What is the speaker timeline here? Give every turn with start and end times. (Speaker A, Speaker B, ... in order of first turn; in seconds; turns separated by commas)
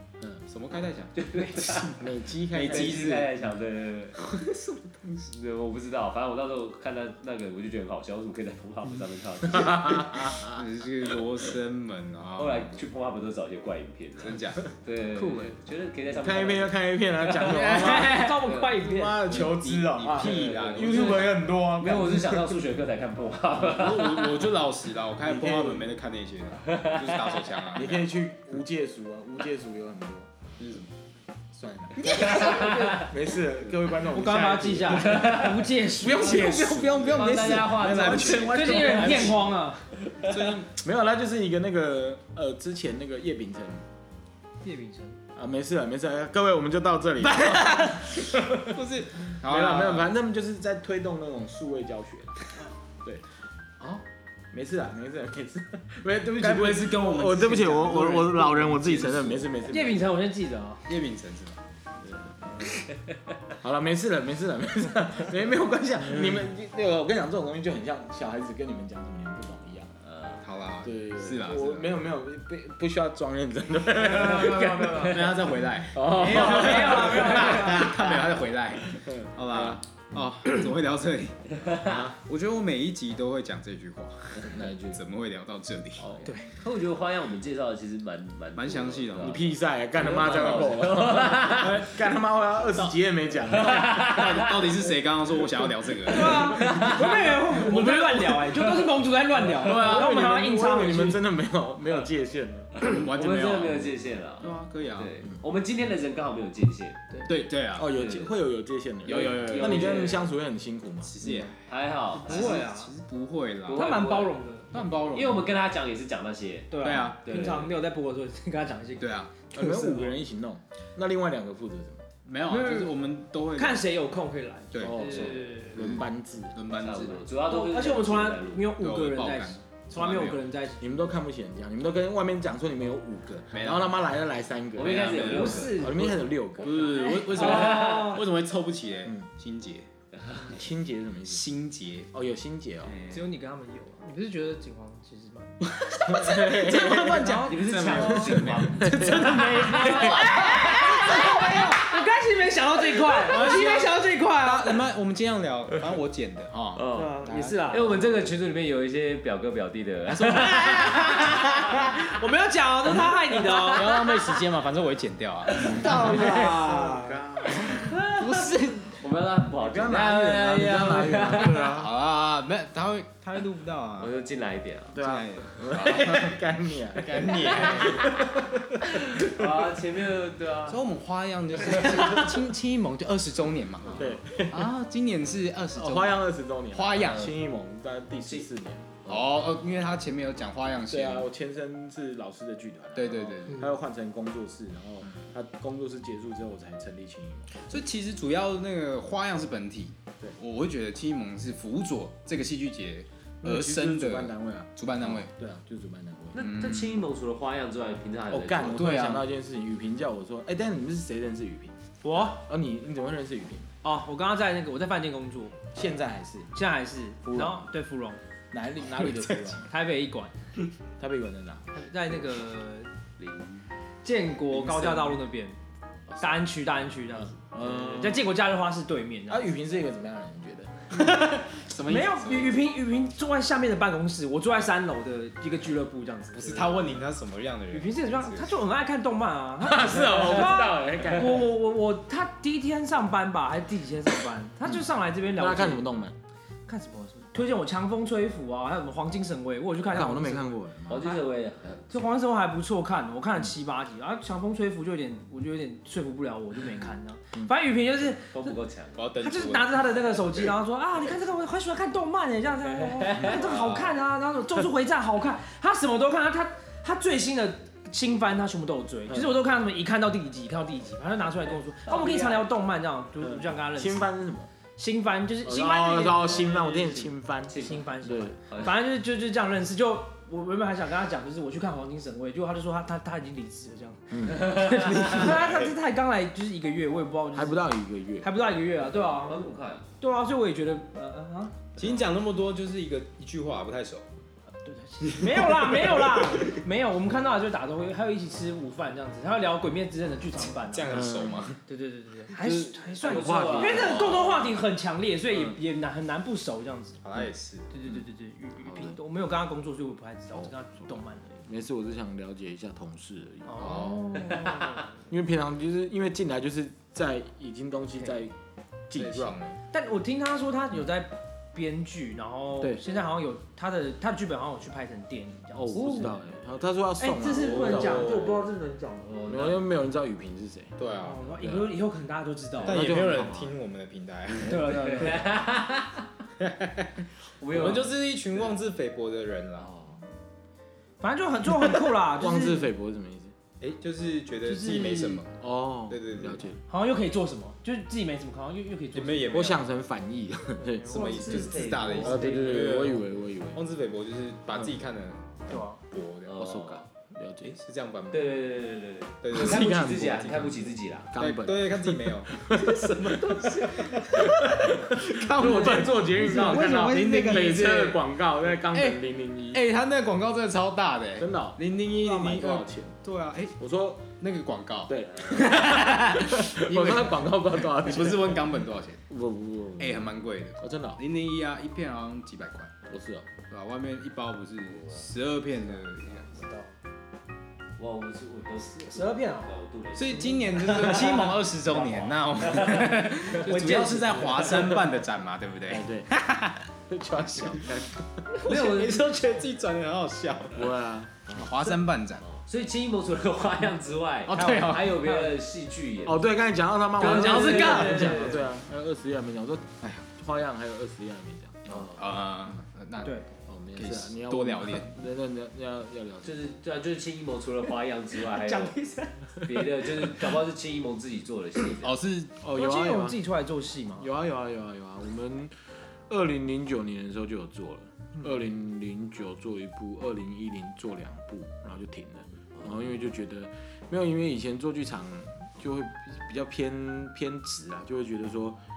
Speaker A: 0.5-1.9, Speaker B: 1.1-1.9, Speaker C: 1.9-3.1, Speaker B: 2.5-4.2, Speaker A: 2.5-3.3, Speaker A: 4.2-5.3, Speaker B: 5.3-10.1, Speaker C: 9.5-10.6, Speaker A: 10.4-12.7, Speaker B: 12.4-18.8, Speaker A: 14.2-14.6, Speaker C: 15.2-15.5, Speaker C: 16.1-22.6, Speaker D: 17.4-19.5, Speaker A: 19.2-21.4, Speaker B: 20.5-24.4, Speaker A: 23.6-28.1, Speaker C: 25.2-25.9, Speaker B: 26.7-27.4, Speaker C: 27.7-30.3, Speaker A: 30.6-30.9, Speaker C: 31.5-39.5, Speaker B: 32.0-33.1, Speaker D: 32.0-33.1, Speaker D: 34.0-36.6, Speaker B: 35.0-35.6, Speaker A: 36.3-39.5, Speaker B: 37.0-39.2, Speaker D: 38.4-39.9, Speaker A: 40.2-40.7, Speaker C: 40.7-43.9, Speaker D: 44.6-45.2, Speaker C: 45.3-48.8, Speaker D: 47.2-48.1, Speaker A: 48.6-50.1, Speaker C: 49.4-53.2, Speaker C: 54.5-60.0, Speaker A: 56.4-59.5, Speaker D: 59.6-60.9, Speaker A: 60.9-61.6, Speaker C: 62.0-62.7, Speaker C: 63.5-69.9, Speaker B: 70.0-70.4, Speaker A: 70.4-72.0, Speaker C: 70.8-78.3, Speaker A: 74.0-86.2, Speaker B: 74.1-75.4, Speaker D: 76.2-78.0, Speaker B: 76.4-77.0, Speaker C: 79.0-79.8, Speaker C: 81.8-82.2, Speaker C: 84.4-85.0, Speaker C: 86.0-86.4, Speaker D: 86.2-86.5, Speaker B: 86.5-91.8, Speaker A: 88.5-89.5, Speaker C: 89.2-94.2, Speaker A: 90.2-90.7, Speaker B: 93.5-94.7, Speaker A: 93.7-96.6, Speaker D: 96.0-101.2, Speaker B: 96.2-99.0, Speaker C: 96.4-97.2, Speaker A: 99.5-100.2, Speaker C: 99.6-102.7, Speaker B: 102.8-107.0, Speaker A: 102.8-105.1, Speaker A: 107.2-107.9, Speaker C: 107.7-111.5, Speaker B: 107.9-108.3, Speaker A: 109.0-110.2, Speaker B: 109.0-110.3, Speaker A: 111.0-113.9, Speaker B: 111.7-112.6, Speaker D: 112.1-112.9, Speaker B: 113.7-114.4, Speaker D: 113.7-115.0, Speaker A: 114.7-115.5, Speaker B: 115.1-117.7, Speaker D: 116.7-120.1, Speaker A: 116.8-117.6, Speaker A: 119.0-119.4, Speaker C: 119.5-122.1, Speaker A: 122.2-123.9, Speaker D: 122.5-123.0, Speaker D: 123.5-125.9, Speaker A: 124.7-127.3, Speaker C: 124.8-126.6, Speaker B: 126.7-128.7, Speaker D: 127.4-131.0, Speaker A: 128.8-130.4, Speaker C: 130.8-136.8, Speaker A: 133.5-134.0, Speaker B: 134.8-135.9, Speaker A: 134.8-135.9, Speaker D: 135.2-138.2, Speaker A: 136.6-139.9, Speaker B: 137.3-138.1, Speaker B: 140.1-140.4, Speaker C: 140.4-141.4, Speaker A: 141.2-142.1, Speaker C: 142.1-142.9, Speaker A: 142.8-143.2, Speaker D: 143.1-145.6, Speaker A: 145.7-151.8, Speaker C: 146.0-147.3, Speaker D: 146.1-148.3, Speaker B: 147.4-151.3, Speaker C: 148.8-150.2, Speaker D: 149.0-154.8, Speaker A: 152.9-158.2, Speaker B: 156.7-161.9, Speaker D: 156.9-158.0, Speaker A: 160.1-161.0, Speaker D: 160.2-164.1, Speaker A: 162.9-166.9, Speaker D: 165.6-167.2, Speaker C: 165.6-168.0, Speaker A: 167.5-169.0, Speaker B: 167.9-171.8, Speaker C: 169.6-171.9, Speaker A: 171.4-174.1, Speaker B: 174.0-175.0, Speaker C: 174.9-179.3, Speaker A: 174.9-178.2, Speaker B: 179.1-180.8, Speaker A: 180.7-187.3, Speaker C: 183.9-184.7, Speaker C: 185.7-189.1, Speaker A: 189.1-191.3, Speaker C: 190.9-197.7, Speaker A: 192.9-193.7, Speaker A: 197.5-205.3, Speaker C: 203.4-206.4, Speaker B: 206.3-208.8, Speaker A: 206.4-207.0, Speaker C: 208.3-211.7, Speaker A: 208.7-209.3, Speaker D: 212.0-212.4, Speaker C: 212.3-213.7, Speaker D: 213.8-215.6, Speaker C: 215.7-216.5, Speaker D: 216.5-218.2, Speaker C: 217.2-217.7, Speaker C: 218.5-219.7, Speaker A: 218.9-219.6, Speaker D: 219.7-220.3, Speaker C: 221.0-221.7, Speaker D: 221.7-222.9, Speaker B: 223.2-223.6, Speaker D: 224.0-225.6, Speaker C: 224.5-225.2, Speaker D: 226.2-229.5, Speaker C: 227.3-228.3, Speaker C: 229.3-231.0, Speaker A: 230.9-232.6, Speaker D: 231.8-237.0, Speaker A: 236.3-238.6, Speaker D: 237.7-245.8, Speaker C: 239.6-241.5, Speaker C: 245.3-246.1, Speaker D: 246.7-251.2, Speaker C: 249.9-251.0, Speaker B: 250.9-251.9, Speaker D: 251.9-258.6, Speaker B: 258.3-259.0, Speaker A: 258.9-260.5, Speaker D: 259.2-274.1, Speaker B: 263.0-263.3, Speaker A: 263.2-264.0, Speaker C: 269.1-269.4, Speaker B: 271.9-272.5, Speaker C: 273.2-274.5, Speaker D: 274.8-291.6, Speaker C: 275.4-278.4, Speaker B: 277.5-277.8, Speaker C: 284.1-284.5, Speaker B: 284.4-285.2, Speaker A: 284.7-285.7, Speaker C: 287.3-288.3, Speaker B: 289.1-289.8, Speaker A: 291.8-294.0, Speaker D: 294.5-301.1, Speaker A: 295.0-296.6, Speaker A: 300.4-301.6, Speaker C: 300.9-301.5, Speaker D: 301.7-307.0, Speaker C: 302.3-304.2, Speaker B: 303.0-304.2, Speaker A: 307.0-307.7, Speaker D: 307.7-311.4, Speaker C: 308.6-309.0, Speaker C: 311.4-313.9, Speaker D: 313.5-315.0, Speaker A: 313.6-314.4, Speaker C: 315.1-318.3, Speaker C: 318.9-319.4, Speaker A: 318.9-319.6, Speaker D: 319.7-326.2, Speaker C: 322.6-322.9, Speaker C: 325.5-328.4, Speaker D: 327.0-329.2, Speaker A: 327.3-328.4, Speaker B: 329.1-329.6, Speaker C: 329.2-330.8, Speaker A: 330.8-331.4, Speaker D: 330.9-333.0, Speaker C: 331.4-331.7, Speaker A: 332.6-335.1, Speaker C: 332.6-333.6, Speaker D: 334.4-335.3, Speaker B: 334.5-336.0, Speaker A: 336.4-339.8, Speaker B: 337.4-337.9, Speaker D: 341.0-342.7, Speaker C: 342.1-343.3, Speaker A: 343.6-346.4, Speaker D: 344.4-345.2, Speaker C: 345.4-346.6, Speaker D: 346.7-349.6, Speaker A: 348.9-349.6, Speaker C: 349.3-351.0, Speaker D: 350.7-351.6, Speaker A: 350.8-356.8, Speaker B: 350.9-352.5, Speaker C: 352.0-353.6, Speaker D: 355.5-355.8, Speaker B: 356.2-356.8, Speaker C: 357.1-357.5, Speaker A: 357.4-358.4, Speaker B: 358.1-361.1, Speaker A: 359.2-360.5, Speaker C: 359.3-369.6, Speaker A: 361.1-362.4, Speaker D: 362.6-364.2, Speaker A: 363.2-368.1, Speaker D: 366.2-367.4, Speaker A: 368.7-373.6, Speaker C: 371.2-373.0, Speaker C: 373.6-374.1, Speaker A: 374.2-379.0, Speaker C: 374.9-378.6, Speaker C: 379.1-381.0, Speaker A: 379.8-382.8, Speaker C: 382.9-383.3, Speaker A: 383.5-386.3, Speaker D: 386.1-386.7, Speaker B: 387.8-393.1, Speaker D: 388.9-389.5, Speaker A: 389.9-396.7, Speaker D: 390.3-391.3, Speaker D: 393.2-394.9, Speaker C: 395.7-396.1, Speaker C: 396.9-398.1, Speaker A: 397.2-397.7, Speaker A: 398.3-402.2, Speaker B: 398.4-399.1, Speaker C: 400.5-401.2, Speaker B: 402.2-406.3, Speaker A: 404.3-405.1, Speaker D: 404.3-405.3, Speaker C: 406.0-411.9, Speaker B: 407.0-408.4, Speaker A: 407.0-408.1, Speaker D: 407.8-408.2, Speaker A: 411.8-413.2, Speaker C: 413.5-416.3, Speaker A: 413.7-415.0, Speaker B: 416.2-418.8, Speaker D: 418.2-420.4, Speaker B: 419.4-421.9, Speaker A: 421.8-422.4, Speaker C: 422.4-423.2, Speaker D: 422.5-424.1, Speaker C: 424.0-425.5, Speaker C: 426.1-438.6